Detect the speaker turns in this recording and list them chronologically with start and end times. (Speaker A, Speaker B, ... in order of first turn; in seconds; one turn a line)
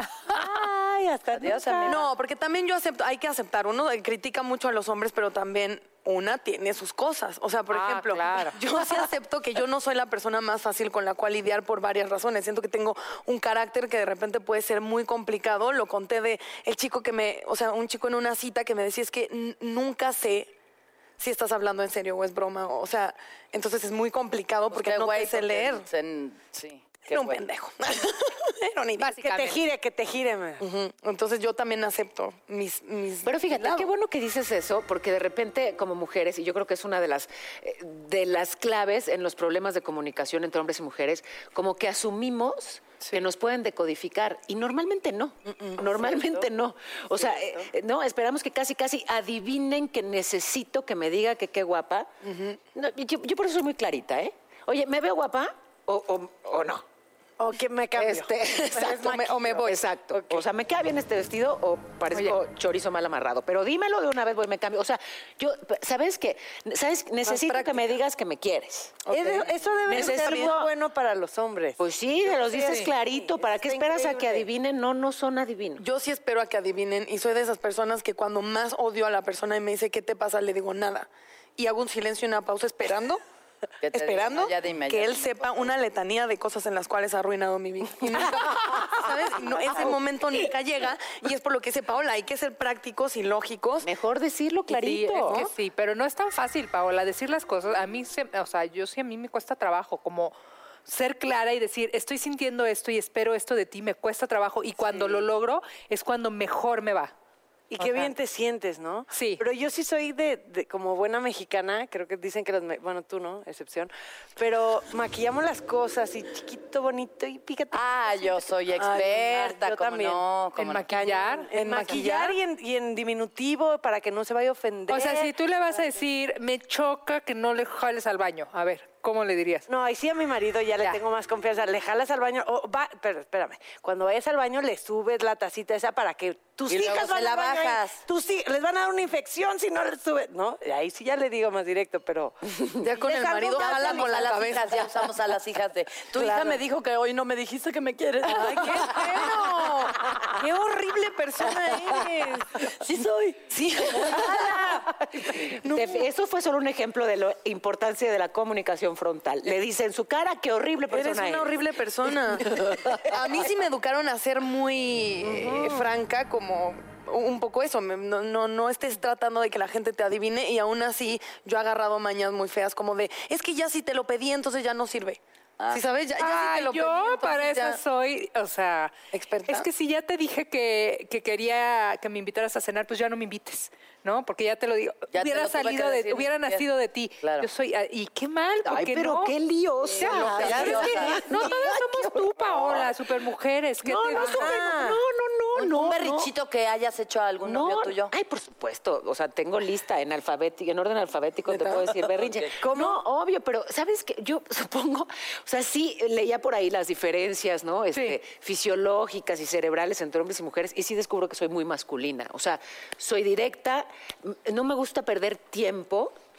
Speaker A: 0.2-2.1
Speaker B: 1.8-20.5
Speaker C: 7.7-8.9
Speaker B: 21.2-25.9
Speaker D: 24.7-27.4
Speaker B: 27.1-29.5
Speaker C: 29.0-29.5
Speaker A: 29.1-30.6
Speaker B: 30.6-33.9
Speaker E: 33.2-52.1
Speaker B: 45.5-46.4
Speaker B: 52.2-52.6
Speaker E: 52.7-56.8
Speaker A: 57.4-59.6
Speaker E: 57.9-69.0
Speaker B: 58.7-59.8
Speaker A: 60.1-60.4
Speaker B: 67.4-67.8
Speaker B: 69.1-70.6
Speaker A: 69.1-74.5
Speaker E: 69.9-70.7
Speaker E: 71.8-75.8
Speaker B: 75.8-83.2
Speaker D: 83.8-85.7
Speaker B: 83.9-93.9
Speaker E: 93.8-95.4
Speaker C: 94.7-100.3
Speaker C: 100.9-107.1
Speaker A: 105.0-105.2
Speaker A: 107.7-125.8
Speaker C: 107.8-108.1
Speaker C: 109.1-109.4
Speaker D: 117.7-121.0
Speaker B: 118.8-119.2
Speaker C: 120.5-122.0
Speaker B: 121.5-122.4
Speaker C: 124.9-129.6
Speaker A: 129.7-144.1
Speaker D: 136.7-138.0
Speaker B: 142.8-144.9
Speaker D: 143.4-149.3
Speaker A: 146.2-146.6
Speaker A: 148.2-149.6
Speaker B: 148.3-150.1
Speaker A: 150.2-152.5
Speaker D: 152.8-154.1
Speaker B: 153.4-156.0
Speaker A: 154.0-154.5
Speaker E: 155.3-161.6
Speaker B: 160.9-175.2
Speaker E: 162.6-163.0
Speaker A: 165.2-165.7
Speaker B: 175.7-177.8
Speaker C: 176.2-189.3
Speaker B: 179.1-179.7
Speaker D: 185.1-186.7
Speaker D: 187.2-187.5
Speaker E: 188.6-192.8
Speaker C: 190.0-194.5
Speaker D: 190.0-191.2
Speaker A: 190.2-191.2
Speaker E: 193.8-196.3
Speaker A: 194.1-195.0
Speaker D: 195.6-198.1
Speaker E: 197.4-216.1
Speaker B: 201.5-201.9
Speaker A: 202.7-202.9
Speaker C: 207.9-208.2